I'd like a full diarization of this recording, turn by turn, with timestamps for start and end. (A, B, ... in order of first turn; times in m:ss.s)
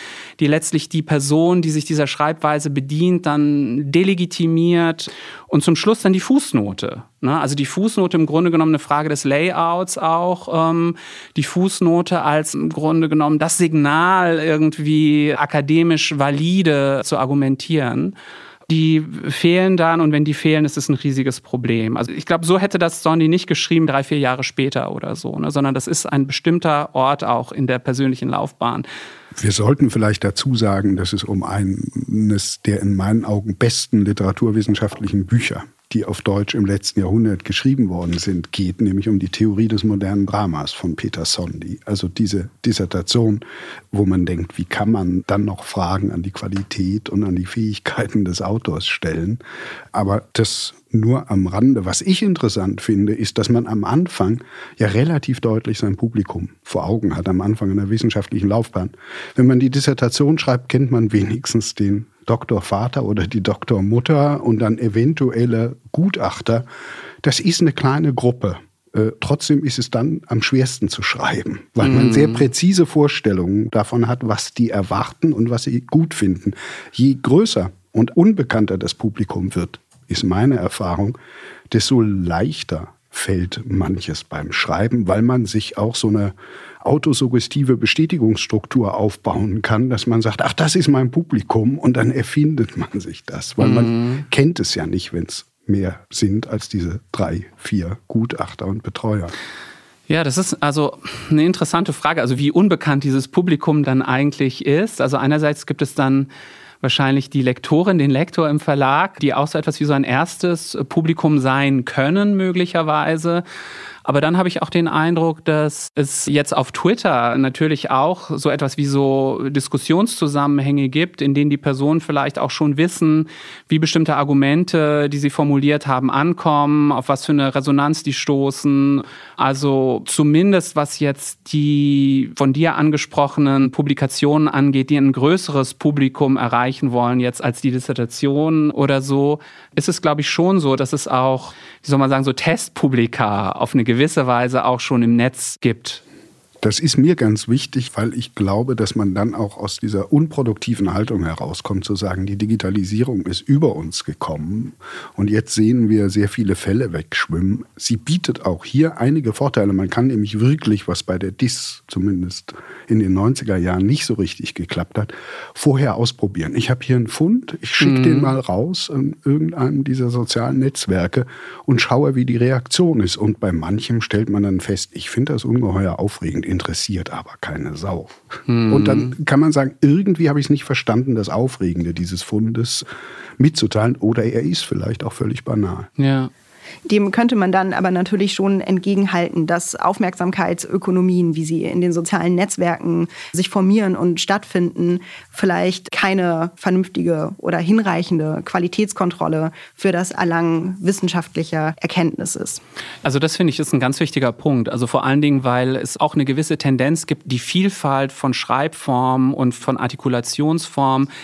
0:00.4-0:18.2 A
0:18.7-0:28.8 A
0:29.4-0:49.4 B
0:49.9-1:06.6 B
1:07.2-1:21.2 B
1:11.8-1:12.4 A
1:21.7-1:39.3 B
1:33.6-1:34.2 A
1:40.1-1:46.3 A
1:46.8-1:53.4 A
1:54.0-2:26.0 A
2:26.6-3:02.8 B
2:47.8-2:48.3 A
2:58.5-2:59.1 A
3:03.4-3:05.9 B
3:06.0-3:06.3 A
3:06.8-3:22.6 C
3:23.0-3:31.1 A